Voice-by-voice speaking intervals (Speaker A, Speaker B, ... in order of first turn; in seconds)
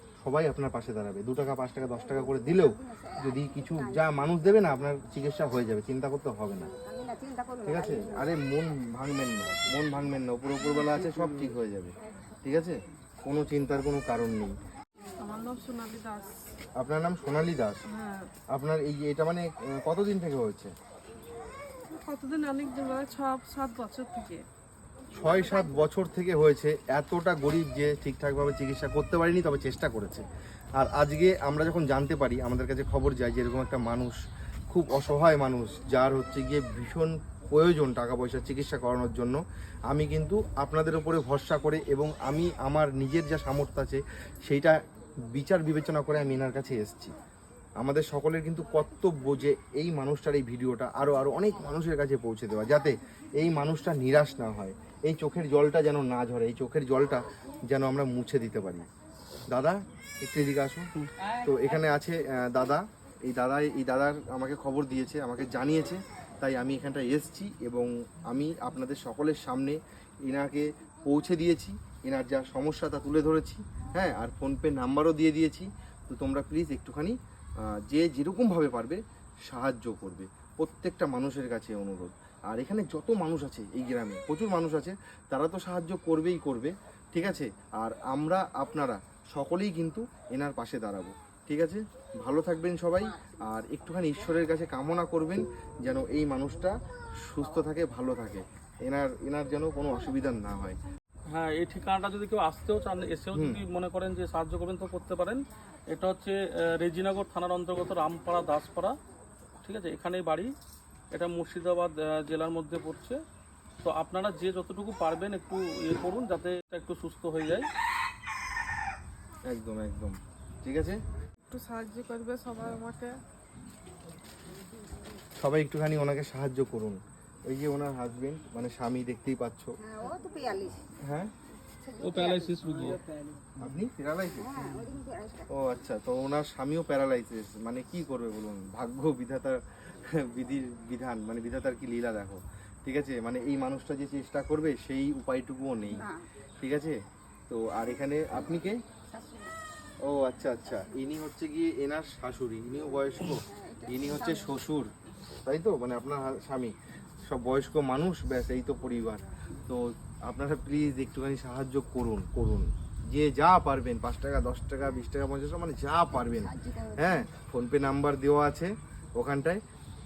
Speaker A: 0.2-6.7, 7.6-14.5, 16.8-17.8, 18.5-20.7, 25.1-30.2, 30.8-34.2, 34.7-44.8, 45.3-47.1, 47.8-58.9, 59.5-100.8, 103.3-103.6, 119.5-121.0, 125.4-127.0, 127.5-129.7, 131.0-131.3, 133.6-134.5, 135.5-146.1, 146.6-147.0, 147.5-148.8, 150.1-154.9, 155.4-156.7, 157.3-169.6
Speaker B: 2.2-4.0, 6.7-8.3, 129.8-130.8, 131.7-132.7, 134.4-135.5, 145.9-146.2, 149.1-149.6, 153.5-154.5, 166.2-167.2
Speaker C: 15.2-16.4, 17.9-18.3, 21.9-24.4, 121.5-123.1
Speaker D: 61.0-61.2, 101.3-108.9, 109.6-110.5, 111.1-113.2, 113.8-117.7, 132.0-133.0